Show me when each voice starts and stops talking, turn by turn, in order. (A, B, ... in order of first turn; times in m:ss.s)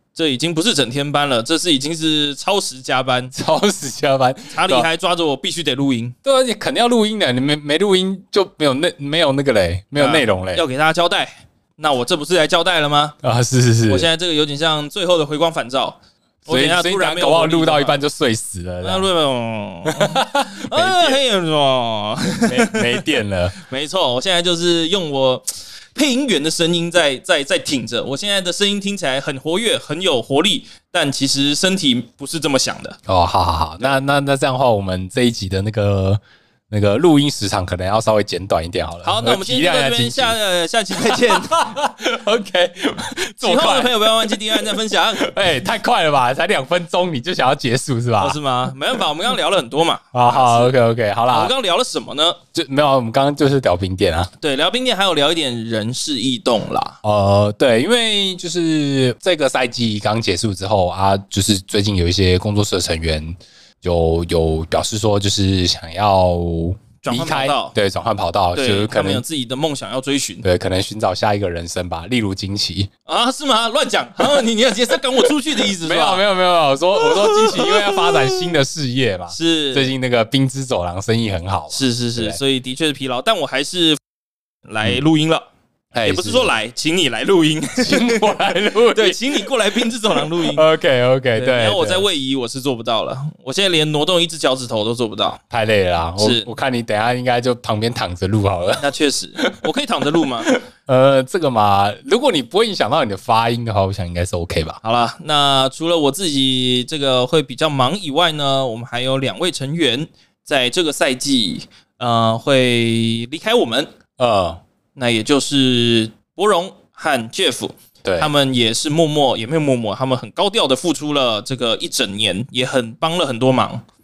0:00.2-0:03.3 A
0:03.3-0:04.9 B
0:04.5-0:06.2 A
0:06.2-0:10.6 B
0:10.0-0:13.2 A
0:13.2-0:14.1 B
0:13.9-0:18.0 A
0:16.5-0:19.1 B
0:18.8-0:23.0 A
0:19.9-0:21.2 B
0:22.5-0:23.6 B
0:23.6-0:33.0 A
0:33.1-0:40.4 B
0:39.0-0:41.7 A
0:41.0-0:49.0 B
0:43.4-0:45.4 A
0:48.2-0:52.4 A
0:50.1-0:51.5 B
0:52.6-0:54.3 B
0:54.4-0:57.0 A
0:57.0-1:09.2 B
1:07.0-1:07.8 A
1:08.6-1:10.4 A
1:10.4-1:12.9 B
1:13.1-1:16.2 A
1:15.6-1:22.4 B
1:17.0-1:18.6 A
1:19.3-1:19.9 A
1:21.7-1:24.0 A
1:24.7-1:25.5 A
1:25.9-1:26.5 B
1:26.0-1:30.7 A
1:27.8-1:29.5 B
1:30.2-1:32.1 B
1:31.4-1:35.4 A
1:35.5-1:38.9 B
1:36.2-1:36.5 A
1:38.8-1:40.5 A
1:40.2-1:44.8 B
1:44.8-1:53.9 A
1:54.2-1:54.6 B
1:55.0-2:03.8 A
1:58.0-1:58.3 B